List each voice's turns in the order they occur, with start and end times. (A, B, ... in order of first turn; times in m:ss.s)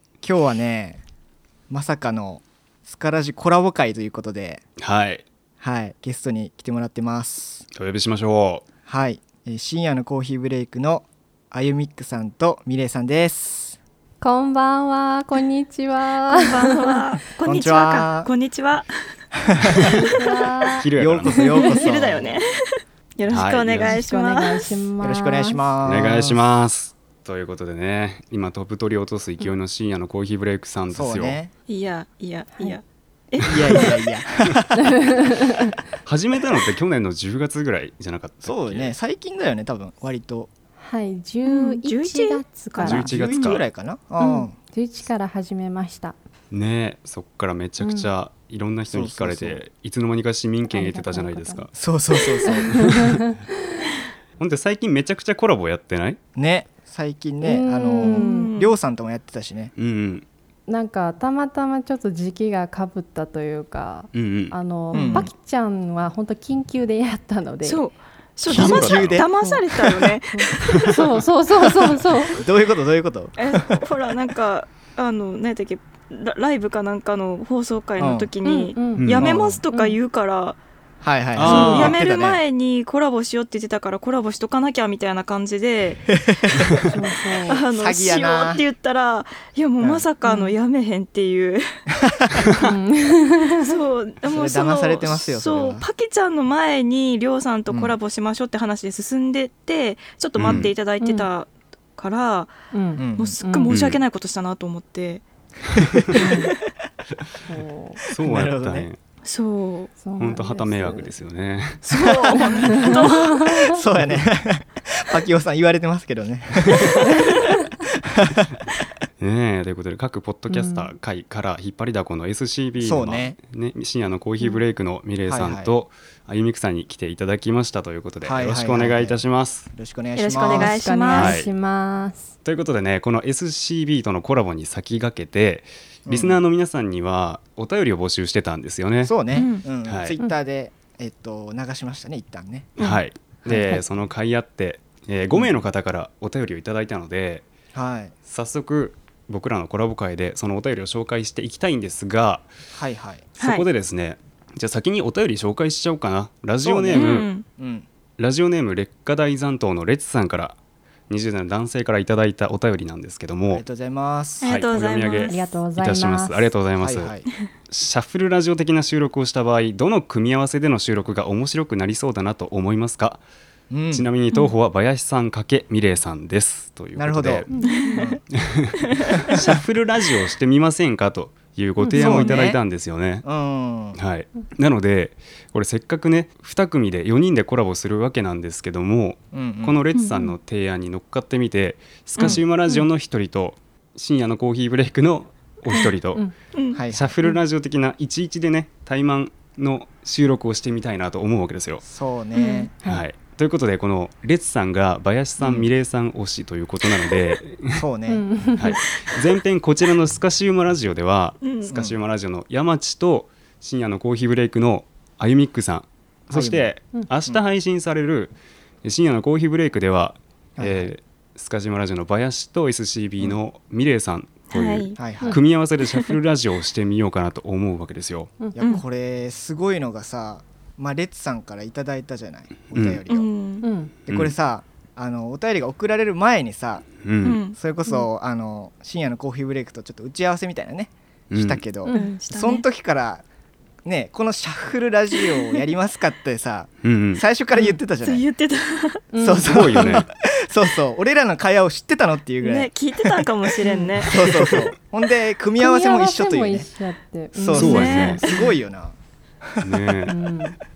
0:00.2-0:01.0 A
0:01.7-0:04.6 A
0:04.8-0:05.2 B
0:05.6-0:07.7 A
0:07.7-0:08.6 B
0:08.9-0:13.8 A
0:14.2-0:17.0 C
0:16.3-0:18.9 D
0:17.4-0:18.3 A
0:19.5-0:20.0 A
0:19.6-0:20.1 B
0:19.8-0:20.9 C
0:20.8-0:21.4 B
0:21.0-0:22.4 A
0:21.4-0:21.8 C
0:21.5-0:24.9 D
0:23.3-0:24.0 B
0:23.8-0:25.6 C
0:25.0-0:26.4 A
0:25.8-0:31.4 B
0:30.9-0:31.5 A
0:31.7-0:34.0 D
0:33.4-0:35.3 A
0:34.8-0:35.7 C
0:36.1-0:38.9 B
0:38.4-0:40.5 A
0:40.8-0:43.1 C
0:41.5-0:43.6 D
0:42.8-0:43.6 B
0:42.8-0:44.6 A
0:44.2-0:46.2 C
0:46.5-0:51.7 B
0:48.9-0:49.6 A
0:50.7-0:51.7 C
0:51.8-0:53.0 A
0:52.5-0:53.8 C
0:52.8-0:53.2 B
0:54.4-0:56.2 B
0:56.4-0:59.7 A
0:57.4-0:58.5 C
0:58.0-0:58.7 D
0:59.8-1:00.3 B
1:00.7-1:07.8 C
1:04.1-1:04.6 B
1:04.9-1:05.3 D
1:04.9-1:05.3 A
1:07.6-1:11.0 D
1:08.5-1:10.1 A
1:08.5-1:09.3 B
1:09.4-1:09.6 C
1:10.3-1:12.4 C
1:10.7-1:11.1 B
1:12.3-1:13.8 A
1:13.4-1:20.6 D
1:18.0-1:18.3 A
1:18.4-1:19.1 C
1:19.0-1:19.3 B
1:19.2-1:19.6 A
1:19.7-1:20.0 C
1:21.0-1:22.4 A
1:21.4-1:22.0 B
1:21.4-1:26.7 D
1:26.2-1:28.6 A
1:26.9-1:27.6 C
1:27.5-1:31.6 D
1:30.2-1:30.5 C
1:32.0-1:32.5 A
1:32.6-1:33.8 C
1:33.6-1:42.5 D
1:34.3-1:35.9 A
1:37.7-1:38.0 A
1:40.4-1:40.7 B
1:40.4-1:40.7 A
1:41.0-1:41.3 C
1:42.7-1:43.7 C
1:43.0-1:43.4 A
1:43.2-1:45.2 D
1:43.7-1:44.0 B
1:45.7-1:46.1 B
1:45.8-1:46.1 A
1:46.1-1:46.6 D
1:46.1-1:46.5 C
1:47.5-1:48.0 C
1:48.1-1:49.0 B
1:48.2-1:48.9 A
1:49.2-1:49.9 D
1:50.0-1:51.1 C
1:50.2-1:51.9 B
1:51.9-1:53.8 D
1:51.9-1:58.7 A
1:52.6-1:53.8 C
1:57.0-1:57.3 C
1:59.2-2:09.7 B
2:00.5-2:00.9 C
2:02.8-2:03.4 A
2:05.3-2:05.7 A
2:08.2-2:10.8 A
2:10.2-2:11.4 D
2:10.4-2:12.3 C
2:11.1-2:11.5 B
2:12.4-2:19.1 B
2:16.1-2:16.4 A
2:19.0-2:22.7 A
2:19.3-2:19.7 D
2:19.8-2:20.2 B
2:22.8-2:27.5 B
2:23.5-2:23.8 A
2:25.3-2:25.6 A
2:27.7-2:28.2 A
2:28.3-2:32.5 B
2:32.7-2:33.3 A
2:33.4-2:33.7 D
2:33.4-2:37.3 B
2:36.6-2:37.9 A
2:36.9-2:37.4 D
2:38.2-2:40.6 B
2:41.1-2:43.6 B
2:43.5-2:44.5 A
2:44.4-2:47.1 B
2:44.4-2:45.5 D
2:45.3-2:46.5 C
2:46.8-2:47.3 A
2:47.7-2:53.2 B
2:53.7-2:54.1 A
2:53.9-2:57.5 B
2:57.0-2:58.2 A
2:57.5-2:58.1 C
2:57.6-2:58.0 D
2:58.3-3:03.2 B
2:59.0-2:59.4 D
3:01.8-3:02.2 C
3:02.0-3:02.6 A
3:02.1-3:02.5 D
3:03.2-3:04.0 A
3:03.9-3:16.2 B
3:09.3-3:09.8 A
3:09.9-3:10.3 D
3:16.5-3:16.8 D
3:16.7-3:17.2 A
3:16.9-3:21.8 B
3:21.8-3:22.7 A
3:22.4-3:22.7 D
3:22.9-3:27.8 B
3:25.4-3:25.7 A
3:27.8-3:28.2 A
3:28.1-3:28.8 C
3:28.6-3:48.3 B
3:31.4-3:31.7 D
3:31.7-3:32.0 A
3:36.3-3:36.7 A
3:40.6-3:40.9 A
3:44.5-3:45.2 D
3:45.0-3:45.4 A
3:45.8-3:46.1 D
3:48.5-3:53.3 A
3:52.7-3:53.0 B
3:53.1-3:53.7 D
3:53.6-3:53.9 C
3:54.1-3:56.9 A
3:54.1-3:54.3 B
3:57.0-3:57.4 B
3:57.2-3:58.0 D
3:57.5-4:03.2 A
4:01.3-4:01.6 B
4:01.8-4:02.2 C
4:01.9-4:02.6 D
4:03.8-4:08.2 A
4:06.8-4:07.2 B
4:07.6-4:09.0 D
4:09.1-4:09.9 C
4:09.2-4:16.7 A
4:09.4-4:10.1 B
4:12.4-4:14.7 D
4:15.6-4:18.2 C
4:17.3-4:19.9 A
4:17.5-4:18.5 D
4:17.6-4:18.2 B
4:19.6-4:20.2 B
4:20.1-4:20.6 C